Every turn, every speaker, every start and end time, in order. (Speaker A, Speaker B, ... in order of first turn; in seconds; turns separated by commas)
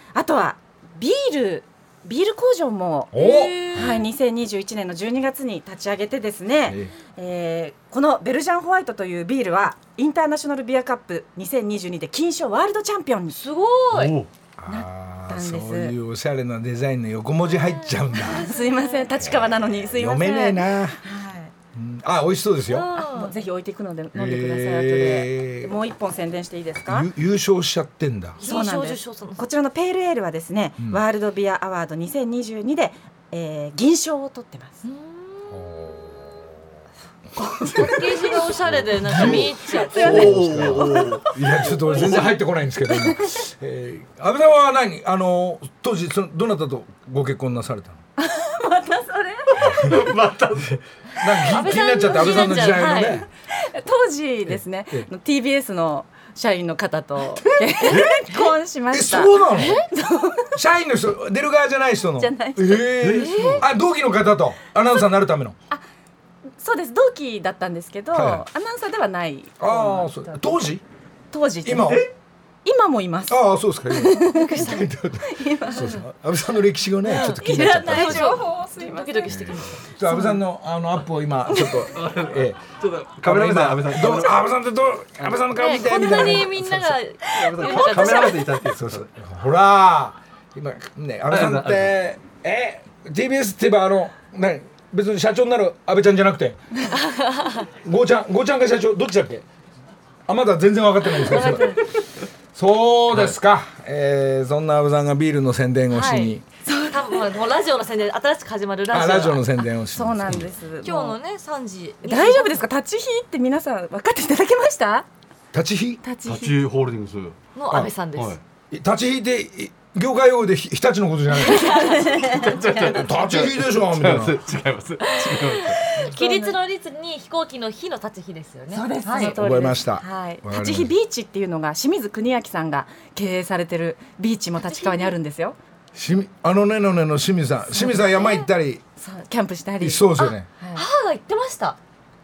Speaker A: 0.1-13.4, Speaker B: 3.1-3.8, Speaker C: 3.2-4.0, Speaker B: 6.7-6.9, Speaker C: 13.3-14.2, Speaker D: 13.9-14.3, Speaker B: 14.6-18.5, Speaker A: 14.7-15.9, Speaker C: 17.5-19.1, Speaker A: 18.3-21.5, Speaker B: 19.2-21.0, Speaker B: 21.7-22.9, Speaker C: 22.7-23.3, Speaker A: 23.0-27.1, Speaker B: 24.1-25.7, Speaker B: 26.9-28.4, Speaker A: 28.4-34.8, Speaker C: 28.4-29.4, Speaker C: 34.8-35.5, Speaker B: 35.5-36.4, Speaker B: 37.6-48.0, Speaker C: 37.7-40.5, Speaker A: 38.1-38.4, Speaker D: 38.6-41.3, Speaker A: 39.7-42.3, Speaker D: 41.9-42.3, Speaker A: 42.9-43.3, Speaker A: 48.2-50.0, Speaker B: 49.6-50.0, Speaker D: 49.8-50.7, Speaker B: 50.6-53.2, Speaker C: 51.4-53.2, Speaker A: 53.2-60.6, Speaker B: 54.5-55.1, Speaker D: 57.9-58.2, Speaker B: 58.9-59.8, Speaker C: 59.5-59.9, Speaker B: 60.5-65.5, Speaker A: 62.2-63.0, Speaker D: 63.0-63.7, Speaker C: 63.1-63.6, Speaker A: 66.6-70.6, Speaker B: 68.1-68.4, Speaker B: 69.6-70.8, Speaker A: 71.3-72.0, Speaker B: 71.6-72.1, Speaker A: 72.6-76.0, Speaker B: 73.3-78.3, Speaker C: 74.4-74.7, Speaker C: 77.0-80.0, Speaker A: 77.1-79.5, Speaker B: 79.3-82.6, Speaker A: 80.0-80.4, Speaker A: 81.5-81.8, Speaker D: 81.9-84.4, Speaker B: 83.2-87.0, Speaker C: 85.6-88.5, Speaker D: 87.3-89.1, Speaker B: 88.0-96.6, Speaker D: 91.3-92.0, Speaker C: 97.1-97.6, Speaker B: 97.8-99.4, Speaker B: 100.3-101.8, Speaker C: 101.2-101.9, Speaker B: 102.5-106.4, Speaker C: 105.9-106.3, Speaker A: 106.6-107.2, Speaker C: 106.9-109.6, Speaker B: 108.9-110.4, Speaker A: 109.9-111.2, Speaker C: 110.8-112.6, Speaker A: 112.0-115.1, Speaker B: 115.5-116.0, Speaker A: 116.0-116.5, Speaker D: 116.2-117.4, Speaker C: 117.5-118.4, Speaker B: 118.7-121.7, Speaker C: 121.4-122.0, Speaker A: 121.4-122.9, Speaker D: 122.1-126.0, Speaker B: 122.8-124.4, Speaker C: 125.1-129.4, Speaker A: 125.9-126.5, Speaker A: 128.7-135.6, Speaker B: 129.1-130.9, Speaker C: 134.6-135.1, Speaker B: 135.9-138.8, Speaker A: 137.7-138.4, Speaker A: 139.0-140.8, Speaker B: 139.8-140.5, Speaker C: 140.2-141.8